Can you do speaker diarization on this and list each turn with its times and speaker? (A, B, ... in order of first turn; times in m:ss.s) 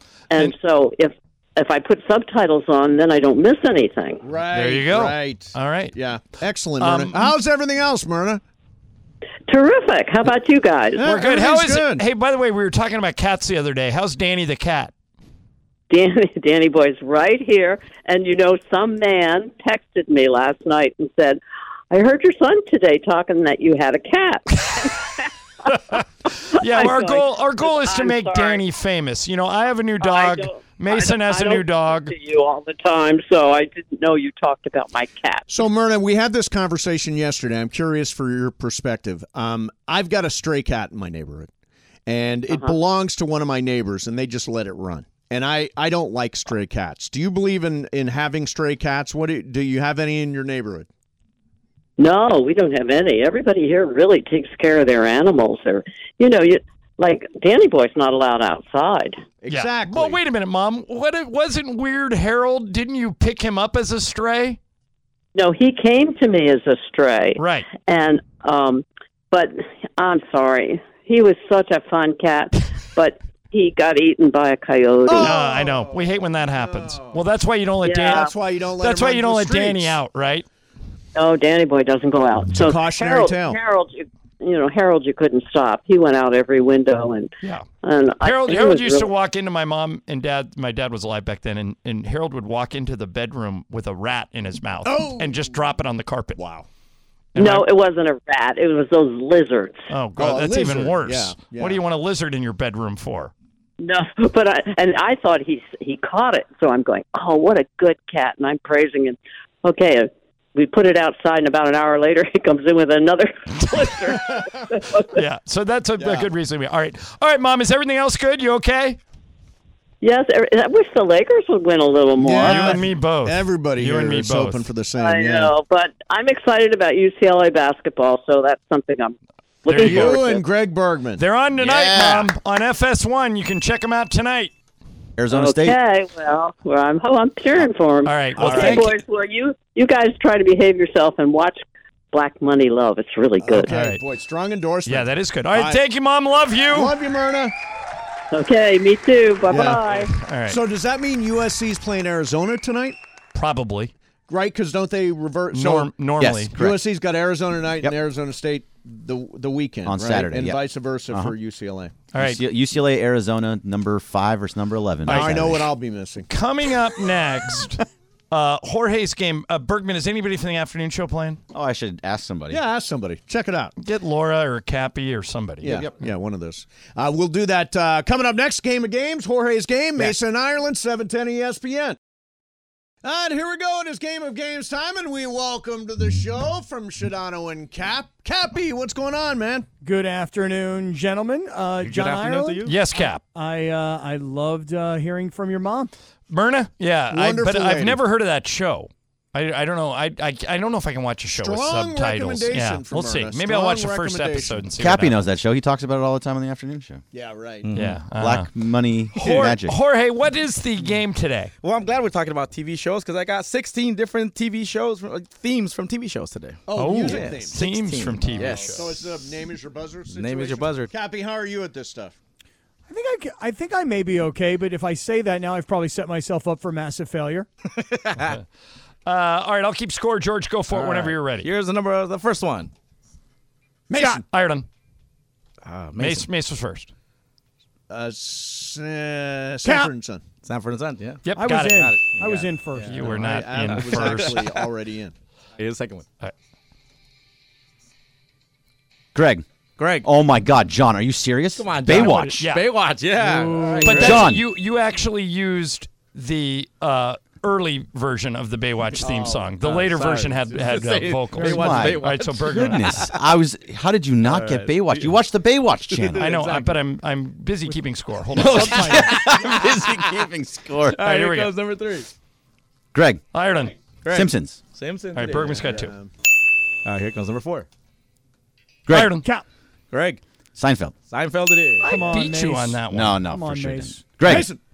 0:00.3-0:04.2 A
0:04.2-0:08.4 B
0:04.5-0:06.0 C
0:06.8-0:07.3 C
0:09.5-0:11.0 A
0:11.0-0:12.0 B
0:11.0-0:14.9 C
0:15.9-0:21.4 A
0:21.9-0:26.0 A
0:25.9-0:32.1 C
0:26.6-0:28.6 A
0:30.0-0:35.5 A
0:35.5-0:41.5 B
0:42.1-0:50.9 B
0:42.5-0:42.8 A
0:52.0-0:59.2 A
0:59.4-1:00.2 B
0:59.5-1:04.6 C
1:05.4-1:15.4 A
1:07.4-1:07.7 C
1:15.1-1:17.2 B
1:15.2-1:20.5 C
1:17.8-1:18.3 A
1:18.0-1:20.0 B
1:21.1-1:29.1 A
1:22.6-1:23.6 B
1:28.2-1:36.4 C
1:34.8-1:35.6 B
1:36.4-1:36.7 B
1:37.4-1:37.7 C
1:37.4-1:39.9 A
1:39.9-1:43.3 C
1:40.2-1:41.8 B
1:43.8-1:55.2 A
1:55.1-1:59.0 C
1:56.0-1:56.3 B
2:00.0-2:02.8 A
2:02.2-2:05.5 B
2:02.4-2:04.7 C
2:05.0-2:10.4 A
2:09.7-2:10.3 C
2:09.7-2:11.2 B
2:11.2-2:14.5 C
2:11.6-2:12.3 D
2:15.2-2:15.8 D
2:15.3-2:21.6 A
2:18.0-2:19.0 C
2:18.4-2:18.9 B
2:22.1-2:23.7 A
2:23.4-2:25.8 B
2:23.7-2:24.0 C
2:24.9-2:26.9 C
2:26.7-2:27.6 B
2:28.3-2:30.1 A
2:29.5-2:33.0 B
2:29.6-2:30.6 C
2:33.3-2:33.9 C
2:34.3-2:35.9 B
2:35.5-2:36.5 C
2:36.2-2:36.8 D
2:36.6-2:41.9 B
2:39.9-2:41.3 D
2:42.1-2:42.4 C
2:42.2-2:45.7 D
2:45.0-2:45.5 C
2:45.0-2:46.3 B
2:46.3-2:51.4 C
2:51.5-2:52.6 D
2:52.5-2:53.7 B
2:53.8-2:55.8 C
2:55.6-3:02.0 B
2:55.6-2:55.9 D
3:03.0-3:09.7 B
3:09.8-3:12.7 E
3:11.8-3:12.8 F
3:12.6-3:13.2 C
3:13.3-3:15.9 E
3:16.3-3:25.3 C
3:17.1-3:18.0 B
3:21.4-3:24.6 B
3:24.8-3:27.0 D
3:27.1-3:27.7 B
3:27.6-3:28.0 F
3:27.7-3:28.5 C
3:28.1-3:29.8 D
3:29.1-3:31.5 C
3:31.6-3:38.9 F
3:36.7-3:37.6 B
3:36.7-3:38.9 C
3:38.4-3:42.2 B
3:40.1-3:40.9 F
3:42.9-3:47.5 E
3:47.8-3:48.4 F
3:49.0-3:51.5 C
3:50.7-3:52.7 F
3:53.9-3:54.2 B
3:54.0-3:54.2 E
3:54.1-3:54.7 C
3:55.6-3:56.3 F
3:56.0-3:56.9 C
3:57.9-4:00.2 B
3:59.6-3:59.9 E
4:00.4-4:04.5 F
4:01.2-4:02.0 C
4:01.4-4:03.0 E
4:02.8-4:04.5 C
4:03.0-4:05.1 B
4:05.6-4:06.0 F
4:09.1-4:09.4 D
4:09.8-4:10.1 F
4:10.0-4:12.5 D
4:11.6-4:14.3 F
4:11.8-4:12.7 C
4:13.2-4:14.0 E
4:13.8-4:23.1 C
4:14.0-4:14.4 D
4:19.0-4:23.0 F
4:21.4-4:26.3 D
4:24.2-4:25.2 F
4:25.9-4:26.8 F
4:26.2-4:29.0 C
4:28.4-4:31.0 D
4:28.4-4:29.1 E
4:29.0-4:29.9 F
4:30.9-4:32.1 F
4:31.0-4:31.6 C
4:32.9-4:33.2 D
4:33.3-4:33.7 C
4:34.0-4:35.8 F
4:34.1-4:34.6 D
4:35.1-4:35.9 C
4:35.5-4:36.1 B
4:36.8-4:37.7 F
4:38.9-4:39.2 D
4:38.9-4:39.3 C
4:39.9-4:40.2 F
4:40.6-4:41.0 D
4:41.1-4:42.1 F
4:41.8-4:44.0 E
4:41.8-4:43.3 C
4:42.9-4:44.5 D
4:44.2-4:44.6 B